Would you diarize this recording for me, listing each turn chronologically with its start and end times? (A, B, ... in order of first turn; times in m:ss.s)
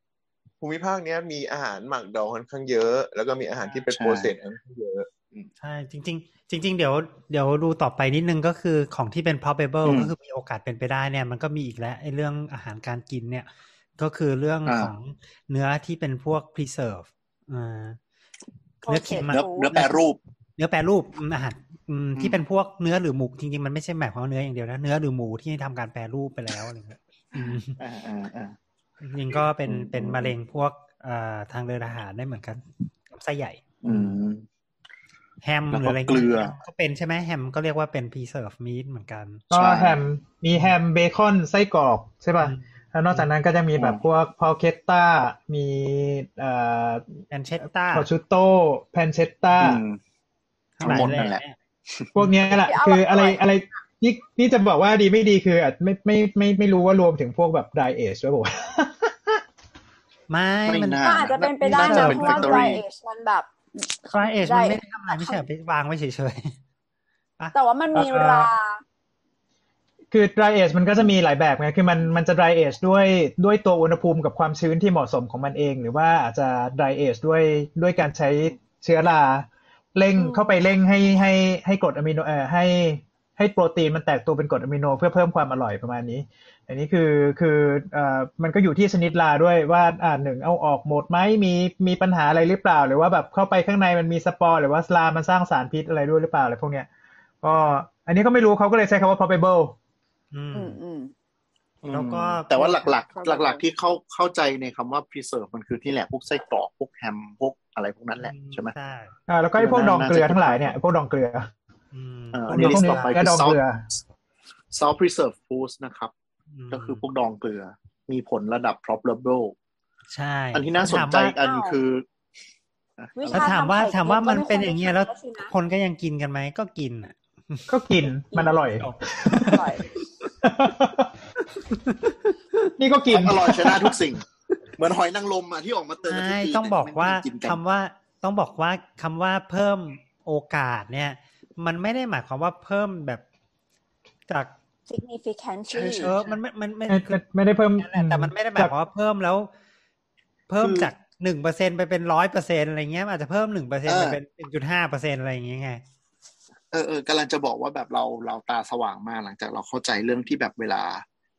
0:00.6-0:05.5 A
0:03.9-0:04.3 B
0:05.6-0:18.0 C
0:09.8-0:10.1 B
0:14.6-0:14.9 B
0:18.8-0:19.7 D
0:18.8-0:20.0 C
0:19.3-0:20.2 B
0:20.6-0:27.8 C
0:27.4-0:28.6 B
0:29.0-0:34.2 C
0:29.3-0:30.3 B
0:33.8-0:34.4 B
0:35.4-0:39.4 C
0:35.7-0:36.5 B
0:39.5-0:47.1 E
0:39.5-0:40.0 B
0:42.4-0:43.3 C
0:43.8-0:44.0 B
0:47.3-0:48.1 C
0:47.9-0:49.8 E
0:49.5-0:50.0 B
0:50.8-0:51.6 C
0:50.8-0:52.1 B
0:52.1-0:59.4 E
0:52.2-0:52.5 C
0:52.6-0:53.8 D
1:00.3-1:02.8 C
1:00.7-1:02.8 B
1:01.0-1:03.9 D
1:04.1-1:06.6 C
1:04.4-1:05.4 D
1:07.5-1:08.8 D
1:07.9-1:08.5 E
1:10.1-1:36.9 E
1:20.2-1:20.5 D
1:37.4-1:39.7 E
1:40.3-1:40.8 C
1:40.5-1:41.1 D
1:41.8-1:48.7 B
1:41.9-1:42.9 C
1:43.1-1:43.6 D
1:48.2-1:49.1 C
1:49.3-1:51.5 E
1:49.6-1:50.8 B
1:51.9-1:53.2 C
1:52.3-1:53.6 B
1:52.5-1:53.8 E
1:54.7-1:56.1 B
1:56.5-1:57.0 C
1:56.7-1:59.5 B
2:00.1-2:01.4 C
2:00.5-2:02.0 B
2:01.4-2:01.8 D
2:03.0-2:03.6 B
2:03.1-2:05.5 D
2:03.3-2:07.7 C
2:07.7-2:09.6 E
2:08.3-2:08.6 D
2:08.6-2:09.6 C
2:09.4-2:09.9 D
2:10.4-2:11.1 E
2:12.6-2:14.0 E
2:13.1-2:14.2 B
2:14.8-2:17.6 B
2:16.1-2:23.2 C
2:24.3-2:24.5 C
2:24.9-2:26.1 D
2:25.7-2:26.3 B
2:26.0-2:27.1 C
2:26.9-2:28.7 E
2:27.8-2:29.5 C
2:30.5-2:35.8 C
2:30.6-2:30.9 B
2:33.8-2:34.2 B
2:36.7-2:41.0 B